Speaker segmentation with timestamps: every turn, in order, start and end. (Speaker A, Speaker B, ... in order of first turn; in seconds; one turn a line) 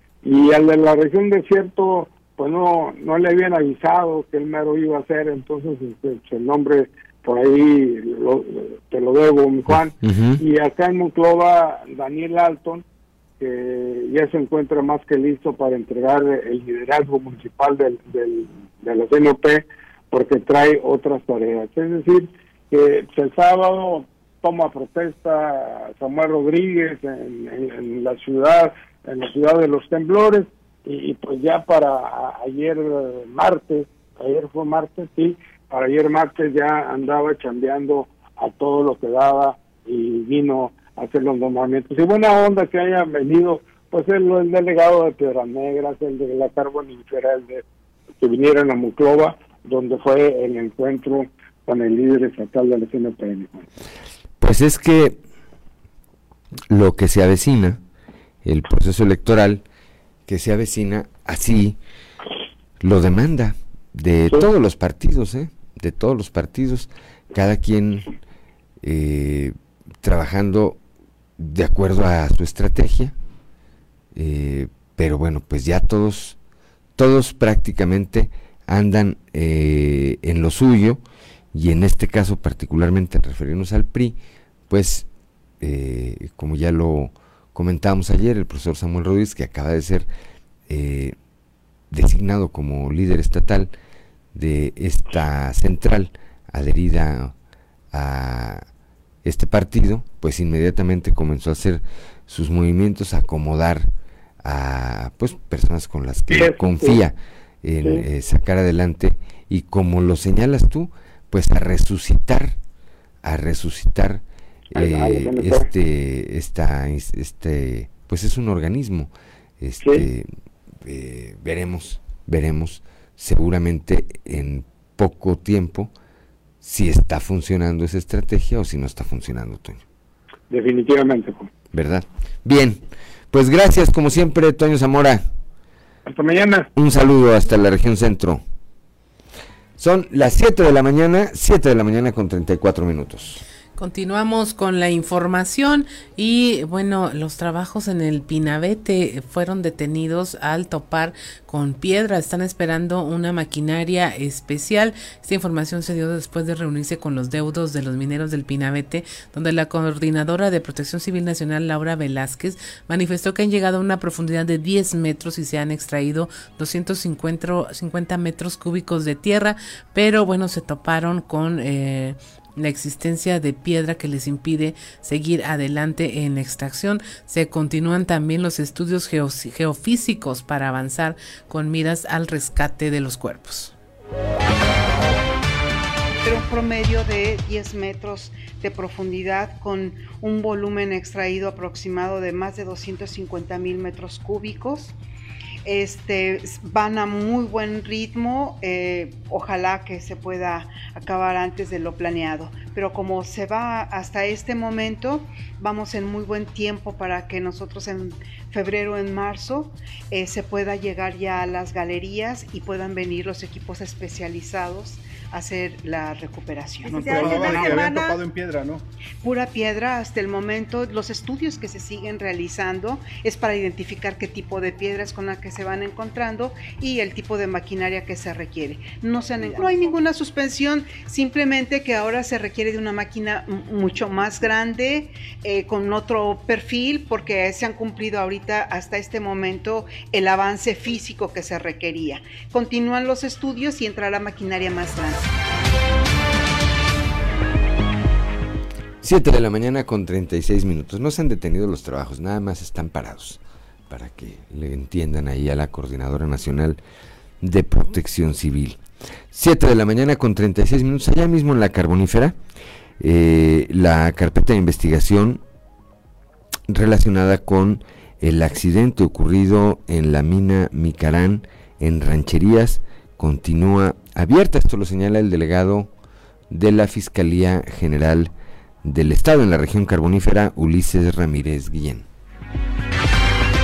Speaker A: 0.2-12.8
Speaker B: 9.7-10.4
Speaker A: 13.4-47.6
Speaker A: 48.2-53.7
Speaker B: 54.4-55.2
Speaker B: 56.7-57.8
Speaker B: 58.5-59.6
Speaker B: 60.3-61.8
Speaker B: 62.8-68.1
Speaker B: 68.8-70.8
Speaker B: 71.4-73.1
Speaker B: 74.2-76.4
Speaker B: 77.0-81.0
Speaker B: 81.5-84.2
Speaker B: 84.7-85.1
Speaker B: 85.6-90.1
Speaker B: 90.7-91.2
Speaker B: 91.9-93.7
Speaker B: 94.3-97.3
Speaker B: 97.9-98.7
Speaker B: 99.2-103.9
Speaker B: 104.4-112.6
Speaker A: 106.3-107.0
Speaker B: 113.2-114.2
Speaker A: 114.7-115.7
Speaker B: 114.7-120.3
Speaker A: 119.8-120.1
Speaker B: 120.8-125.9
Speaker B: 126.6-129.8
Speaker A: 130.5-131.5
Speaker B: 131.7-132.8
Speaker B: 133.3-135.3
Speaker A: 136.1-136.7
Speaker B: 136.8-138.4
Speaker B: 139.8-143.4
Speaker C: 143.8-183.7
Speaker D: 186.2-194.9
Speaker D: 195.7-218.2
Speaker E: 216.8-218.8
Speaker D: 219.2-245.3
Speaker B: 249.0-256.8
Speaker B: 257.4-258.8
Speaker B: 259.3-262.4
Speaker B: 263.0-265.4
Speaker B: 266.7-275.9
Speaker B: 276.5-278.3
Speaker B: 278.8-282.1